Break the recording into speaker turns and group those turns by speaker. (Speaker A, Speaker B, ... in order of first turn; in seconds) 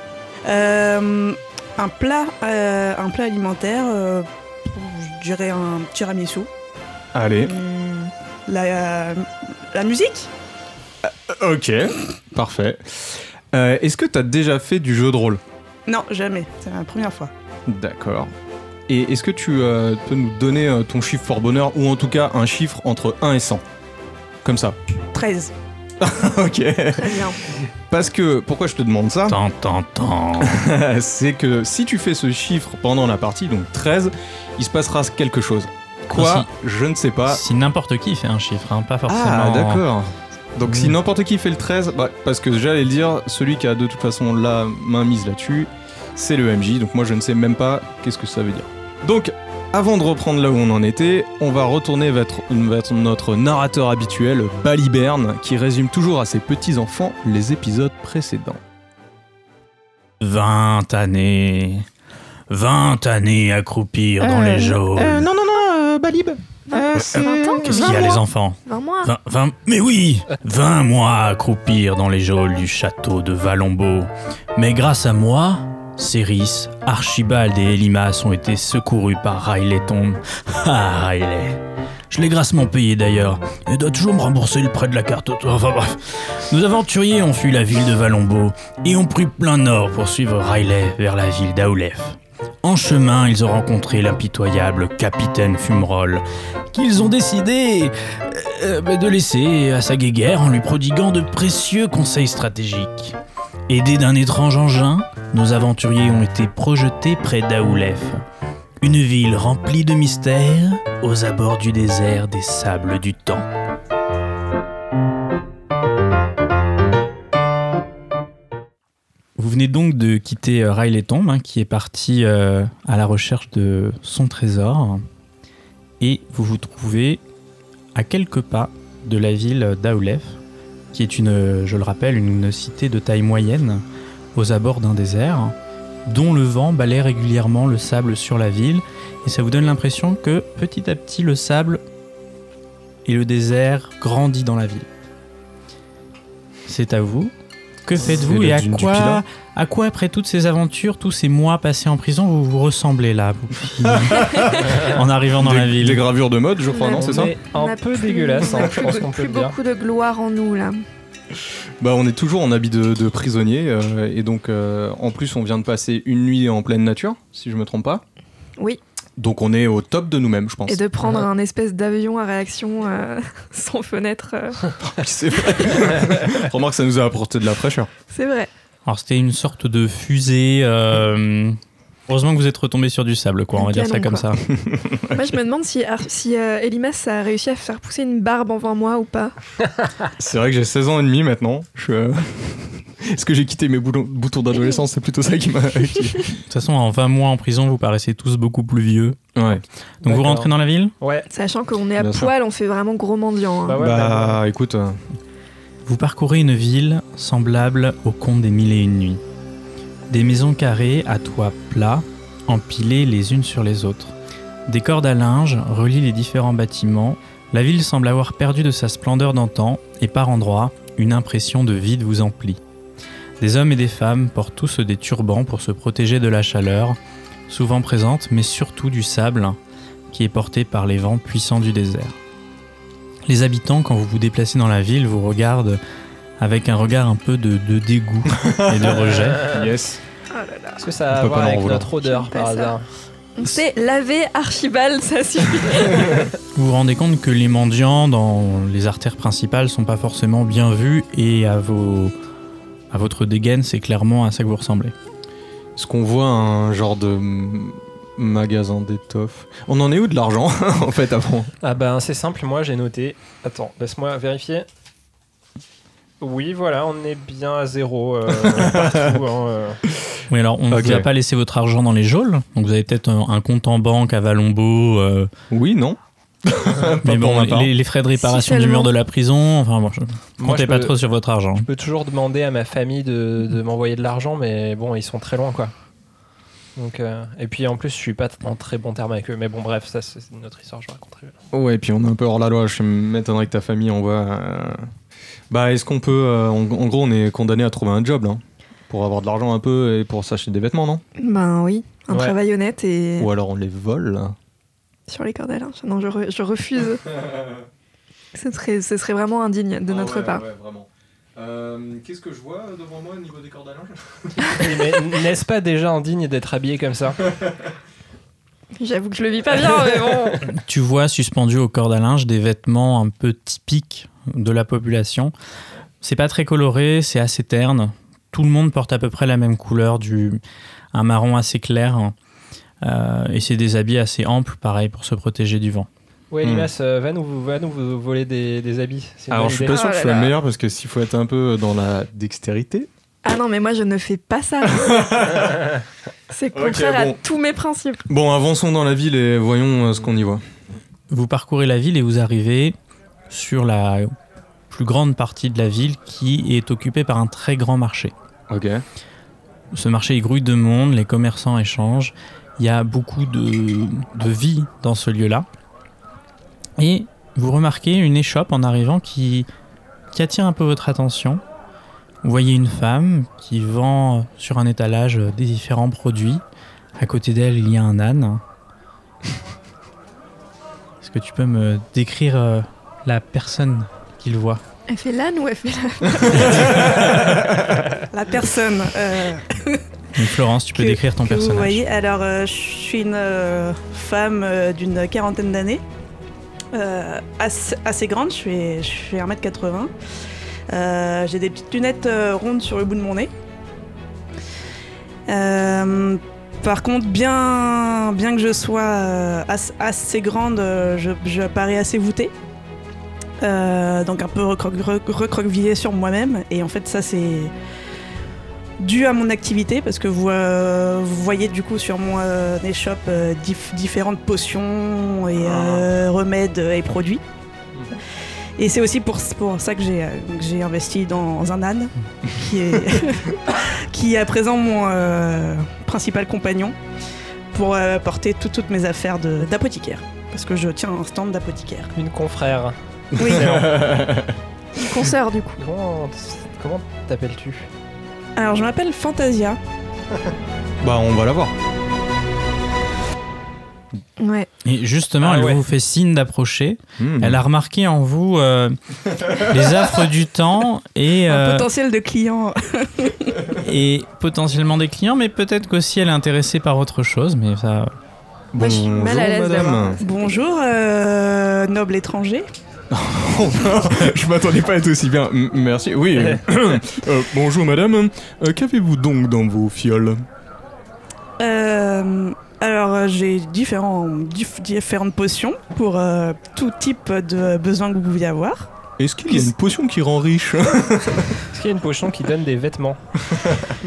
Speaker A: 0.5-6.5, 8.5-10.3, 15.9-17.3, 25.1-25.5, 388.1-389.8, 390.8-395.8, 396.7-399.9, 400.7-403.3, 405.3-412.3, 413.4-417.5, 418.8-427.2, 428.6-436.8, 437.5-441.9, 443.2-443.7, 448.4-449.6, 461.3-463.4, 470.0-472.5, 481.4-488.7
Speaker B: 7.1-7.6, 11.0-15.4, 17.7-18.3, 18.9-23.6, 24.4-24.8, 26.0-29.4, 30.4-37.4, 39.1-58.6, 64.2-68.2, 148.0-149.2, 153.8-157.3, 161.8-168.0, 169.2-170.8, 174.8-177.9, 184.6-185.3, 190.2-196.4, 199.3-199.6, 202.0-202.3, 203.8-205.0, 238.3-240.0, 241.1-241.9, 255.8-261.5, 268.3-269.2, 270.7-271.1, 275.5-277.7, 291.5-294.9, 295.5-301.0, 303.2-304.4, 307.2-307.6, 309.9-314.9, 336.4-336.7, 339.3-342.9, 344.6-345.7, 346.5-347.2, 348.1-350.4, 358.5-358.8, 386.5-387.3, 443.1-444.4, 450.8-451.5, 457.0-457.4, 468.5-470.0, 472.9-480.2, 489.0-491.4
Speaker C: 7.4-8.1, 27.0-27.4, 66.7-69.1, 156.7-160.8, 170.7-174.7, 178.1-178.5, 183.6-184.3, 185.1-189.3, 201.3-203.8, 240.3-240.9, 242.0-242.8, 243.4-246.3, 278.1-278.9, 301.2-303.3, 305.1-307.1, 308.4-310.4, 318.8-320.5, 339.7-340.4, 343.2-345.3, 346.3-348.1, 384.9-387.1, 444.8-445.6, 454.2-454.5, 468.6-470.1
Speaker D: 29.3-30.6, 36.1-36.5, 37.3-39.8, 40.7-40.9, 60.2-61.9, 62.5-65.3, 67.6-103.2, 103.7-108.2, 108.8-113.5, 119.4-125.0, 126.0-127.2, 128.0-130.4, 130.9-133.8, 134.3-135.5, 136.1-141.8, 143.1-144.9, 146.7-147.3, 147.8-156.0, 178.8-184.4, 196.5-199.2, 200.0-200.9, 205.8-209.2, 210.1-214.1, 214.7-222.6, 223.4-229.6, 230.1-232.2, 233.3-235.8, 236.4-239.5, 246.5-252.1, 252.9-254.9, 270.3-275.3, 277.0-281.7, 320.5-325.3, 326.0-330.4, 330.9-332.1, 332.8-335.9, 351.1-352.8, 353.3-354.1, 354.7-358.1, 359.7-365.5, 366.8-369.5, 370.1-371.4, 372.2-376.4, 377.0-378.4, 381.0-384.6, 390.1-391.8, 454.6-461.7, 463.6-467.9
Speaker E: 156.9-159.6, 200.0-201.3, 203.7-204.4, 239.1-239.5, 240.8-242.8, 261.6-264.6, 266.2-269.8, 280.4-281.0, 281.6-285.7, 286.8-291.4, 302.1-302.4, 314.6-317.2, 319.6-320.4, 336.3-339.9, 441.9-442.8, 443.3-443.8, 445.6-447.7, 455.2-455.6, 491.5-493.0